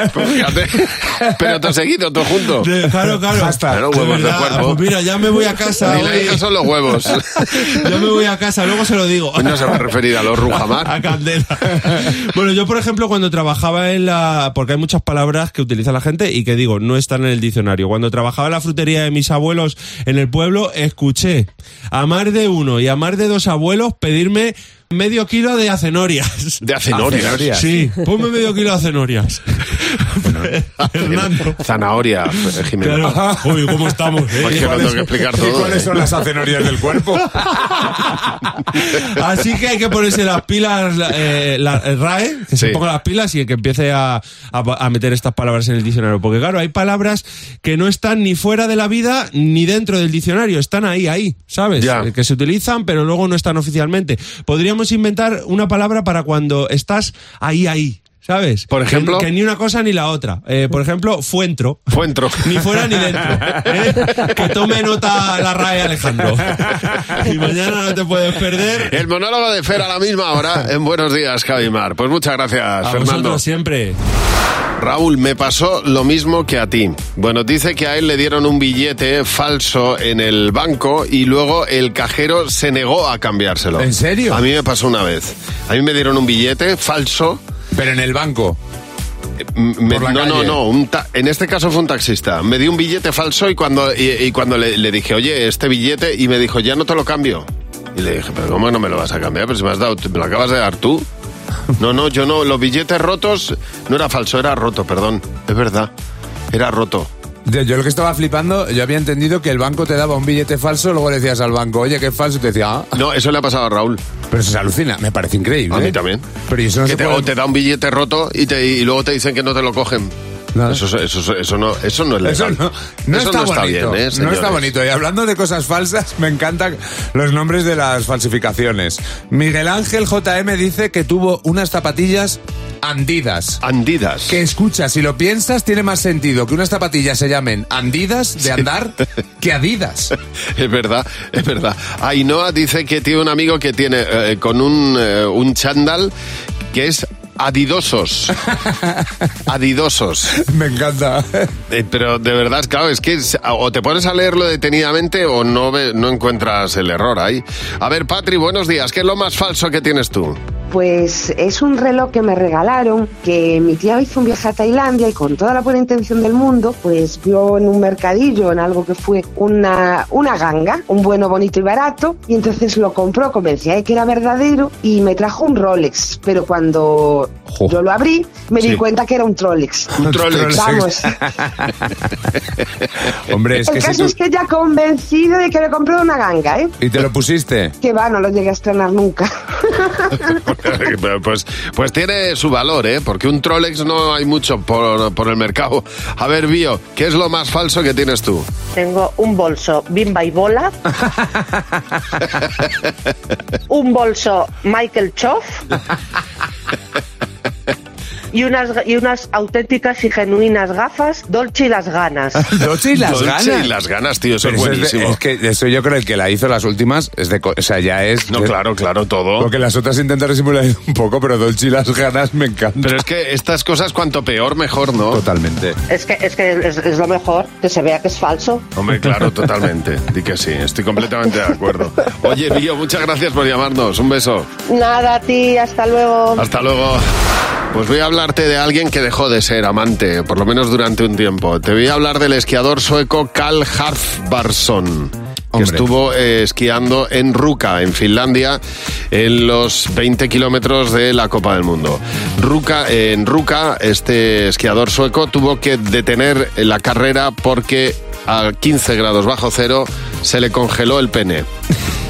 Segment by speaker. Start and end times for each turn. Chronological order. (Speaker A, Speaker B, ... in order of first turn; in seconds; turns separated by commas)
Speaker A: 0.1-2.7, Speaker B: 2.6-6.5, Speaker C: 3.3-4.0, Speaker A: 3.7-4.8, Speaker A: 5.9-7.4, Speaker B: 7.6-9.9, Speaker A: 9.4-10.9, Speaker B: 10.4-26.6, Speaker A: 26.6-27.6, Speaker C: 26.9-27.7, Speaker B: 27.5-31.6, Speaker C: 30.2-30.5, Speaker A: 31.6-33.4, Speaker B: 32.8-35.0, Speaker A: 34.4-35.9, Speaker C: 34.5-37.5, Speaker B: 38.8-61.8, Speaker A: 42.6-42.8, Speaker A: 51.8-52.1, Speaker A: 58.7-59.3, Speaker A: 61.9-62.7, Speaker B: 62.4-69.0, Speaker A: 68.9-73.4, Speaker B: 72.8-74.0, Speaker A: 74.8-87.4, Speaker C: 83.8-84.4, Speaker C: 87.7-88.6, Speaker A: 89.5-101.0, Speaker C: 89.9-90.6, Speaker A: 101.8-105.9, Speaker A: 106.5-107.1, Speaker C: 107.5-113.0, Speaker A: 113.0-114.0, Speaker C: 114.3-117.3, Speaker A: 115.7-116.3, Speaker A: 116.9-120.1, Speaker C: 120.5-120.8, Speaker A: 120.7-122.6, Speaker C: 122.2-133.6, Speaker A: 123.1-124.7, Speaker A: 133.6-134.3, Speaker C: 134.3-140.1, Speaker A: 140.6-146.1, Speaker A: 146.7-148.4, Speaker A: 149.5-150.3, Speaker C: 150.4-151.5, Speaker A: 151.7-160.4, Speaker D: 160.7-179.9, Speaker A: 180.0-180.7, Speaker C: 180.0-181.9, Speaker D: 180.5-181.1, Speaker C: 183.3-184.2, Speaker D: 183.6-186.8, Speaker C: 186.8-187.7, Speaker D: 187.8-190.3, Speaker A: 190.4-198.5, Speaker E: 198.8-200.7, Speaker E: 203.7-205.6, Speaker E: 208.3-212.5, Speaker C: 212.4-213.7, Speaker A: 213.0-215.2, Speaker C: 214.4-218.5, Speaker A: 218.3-219.5, Speaker C: 219.4-222.9, Speaker A: 222.8-225.2, Speaker C: 225.1-225.8, Speaker E: 225.9-228.7, Speaker A: 228.8-234.5, Speaker E: 234.7-236.5, Speaker A: 236.4-237.1, Speaker A: 237.7-248.6, Speaker C: 245.5-245.9, Speaker A: 249.1-261.5